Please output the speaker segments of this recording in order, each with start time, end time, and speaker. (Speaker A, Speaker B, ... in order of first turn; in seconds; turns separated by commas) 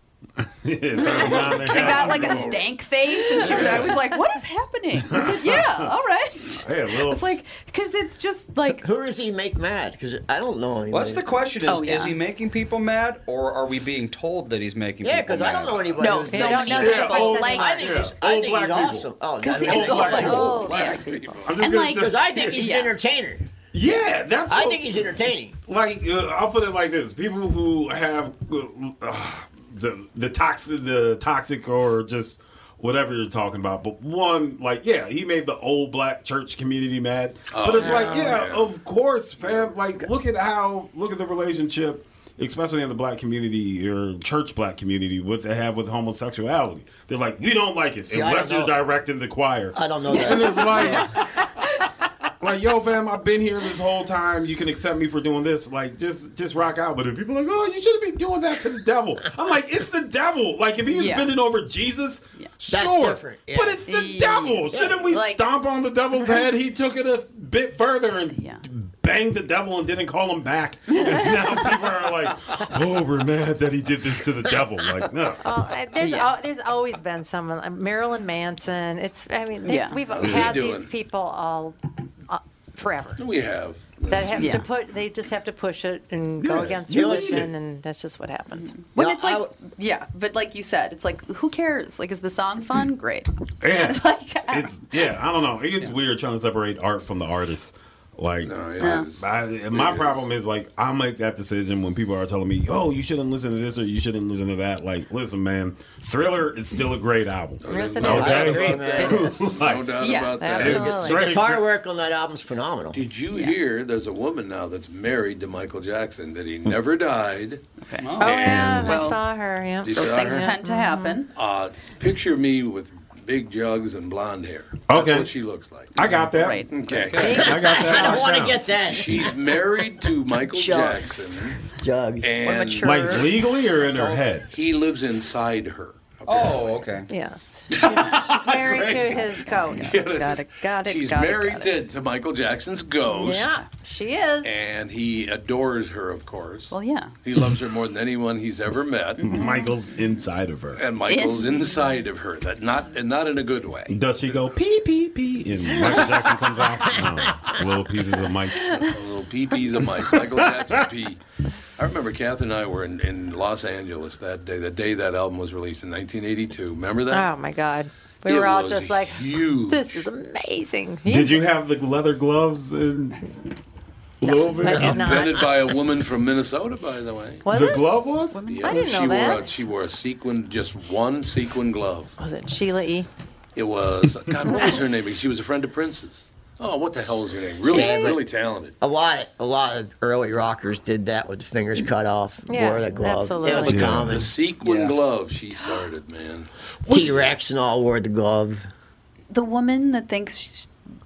Speaker A: 0.4-2.4, Speaker B: 0.9-8.8, Speaker C: 1.0-2.7, Speaker A: 3.4-4.0, Speaker C: 3.4-3.9, Speaker A: 5.0-5.9, Speaker A: 6.6-7.2, Speaker D: 8.7-11.3, Speaker E: 10.9-16.1, Speaker B: 11.7-12.2, Speaker D: 15.0-20.7, Speaker B: 16.0-17.9, Speaker F: 16.3-17.9, Speaker A: 16.7-20.6, Speaker B: 19.4-21.1, Speaker F: 20.0-21.5, Speaker C: 20.4-21.6, Speaker A: 21.4-22.3, Speaker B: 21.6-22.9, Speaker D: 21.9-23.5, Speaker A: 23.7-25.1, Speaker D: 24.5-25.6, Speaker A: 25.7-51.5, Speaker C: 37.5-38.8, Speaker C: 39.4-39.8, Speaker D: 48.1-48.8, Speaker D: 49.7-51.1, Speaker A: 52.4-75.5, Speaker B: 60.9-61.3, Speaker D: 62.7-63.8, Speaker B: 63.9-65.4, Speaker D: 64.7-65.1, Speaker B: 68.3-68.6, Speaker B: 70.9-71.3, Speaker F: 75.4-81.8, Speaker B: 76.0-76.3, Speaker B: 79.6-80.0, Speaker C: 80.1-80.9, Speaker A: 80.2-80.5, Speaker F: 82.3-83.2, Speaker C: 83.2-84.6, Speaker F: 84.1-88.8, Speaker B: 84.4-84.7, Speaker A: 86.4-87.5, Speaker D: 86.8-87.5, Speaker B: 88.6-94.9, Speaker D: 89.0-89.5, Speaker A: 93.6-110.0, Speaker C: 98.4-100.2, Speaker B: 98.8-99.1, Speaker C: 107.6-111.1, Speaker F: 107.7-109.3, Speaker D: 108.0-109.4, Speaker B: 109.0-110.8, Speaker F: 110.4-111.2, Speaker A: 110.6-111.6, Speaker D: 110.9-113.0, Speaker C: 112.9-117.6, Speaker B: 113.3-113.6, Speaker B: 117.8-119.2, Speaker E: 118.0-118.5, Speaker C: 118.2-119.1, Speaker F: 118.2-121.2, Speaker C: 119.8-120.5, Speaker B: 119.9-121.3, Speaker C: 121.3-127.5, Speaker A: 124.9-125.3, Speaker A: 126.0-126.7, Speaker B: 126.1-126.8, Speaker E: 126.9-127.6, Speaker F: 127.2-128.7, Speaker A: 127.2-128.6, Speaker D: 127.4-129.6, Speaker C: 128.8-131.6, Speaker D: 130.5-132.3, Speaker C: 132.2-136.9, Speaker B: 132.4-133.4, Speaker A: 132.8-134.5, Speaker E: 136.3-137.1, Speaker F: 137.1-140.2, Speaker C: 137.7-143.6, Speaker B: 139.8-141.8, Speaker F: 143.1-144.5, Speaker C: 144.4-146.7, Speaker B: 146.7-147.2, Speaker C: 147.2-149.3, Speaker A: 149.2-150.8, Speaker B: 149.3-149.7, Speaker C: 150.7-154.6, Speaker B: 151.1-151.8, Speaker A: 153.9-158.8, Speaker C: 155.8-156.2, Speaker C: 158.8-161.2, Speaker A: 160.1-160.8, Speaker C: 161.8-167.3, Speaker F: 167.1-171.5, Speaker C: 168.3-170.1, Speaker A: 171.1-173.3, Speaker A: 174.2-175.2, Speaker F: 174.2-175.8, Speaker C: 174.6-177.5, Speaker F: 177.4-177.9, Speaker A: 177.5-178.4, Speaker B: 178.3-179.2, Speaker C: 178.4-182.1, Speaker F: 178.6-179.7, Speaker F: 182.2-183.1, Speaker C: 183.6-188.8, Speaker F: 184.5-184.8, Speaker D: 187.7-188.2, Speaker F: 187.7-188.1, Speaker D: 188.8-194.3, Speaker F: 192.5-194.0, Speaker A: 193.7-194.3, Speaker C: 193.9-197.3, Speaker E: 194.6-195.0, Speaker D: 196.9-198.7, Speaker B: 199.3-200.7